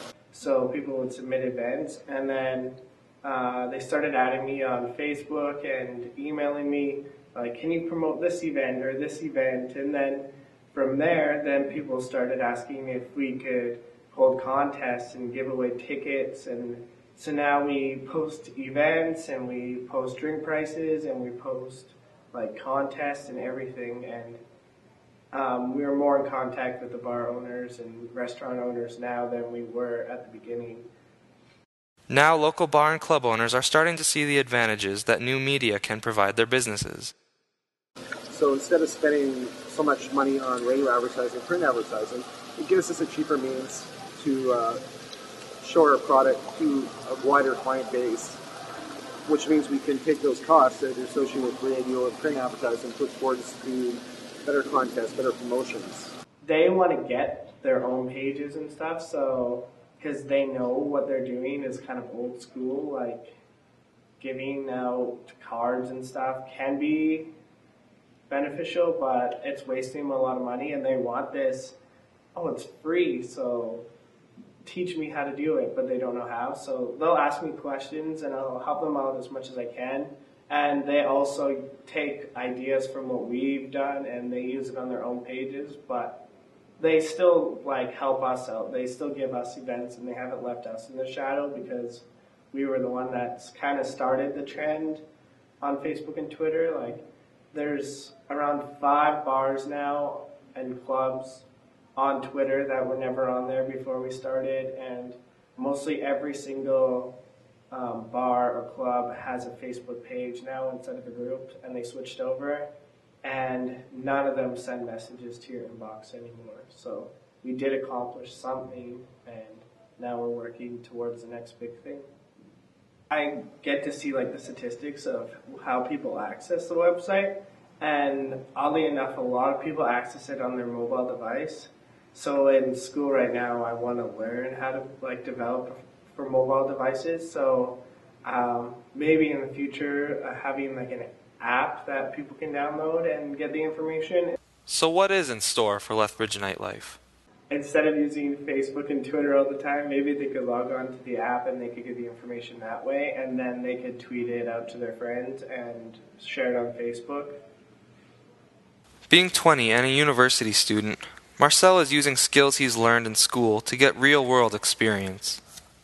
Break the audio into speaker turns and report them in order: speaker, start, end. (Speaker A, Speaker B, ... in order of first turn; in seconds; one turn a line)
Speaker A: 0.3-24.4
Speaker A: 25.3-30.9
Speaker B: 32.1-37.1
Speaker C: 38.3-44.8
Speaker C: 45.6-48.4
Speaker C: 49.3-56.1
Speaker A: 56.4-63.3
Speaker A: 64.2-67.3
Speaker A: 68.3-71.8
Speaker A: 72.3-73.8
Speaker A: 74.6-86.2
Speaker A: 86.8-95.0
Speaker A: 95.6-107.1
Speaker A: 107.7-112.7
Speaker A: 113.2-122.1
Speaker A: 123.1-144.3
Speaker B: 144.7-147.0
Speaker A: 147.5-157.4
Speaker B: 159.1-165.4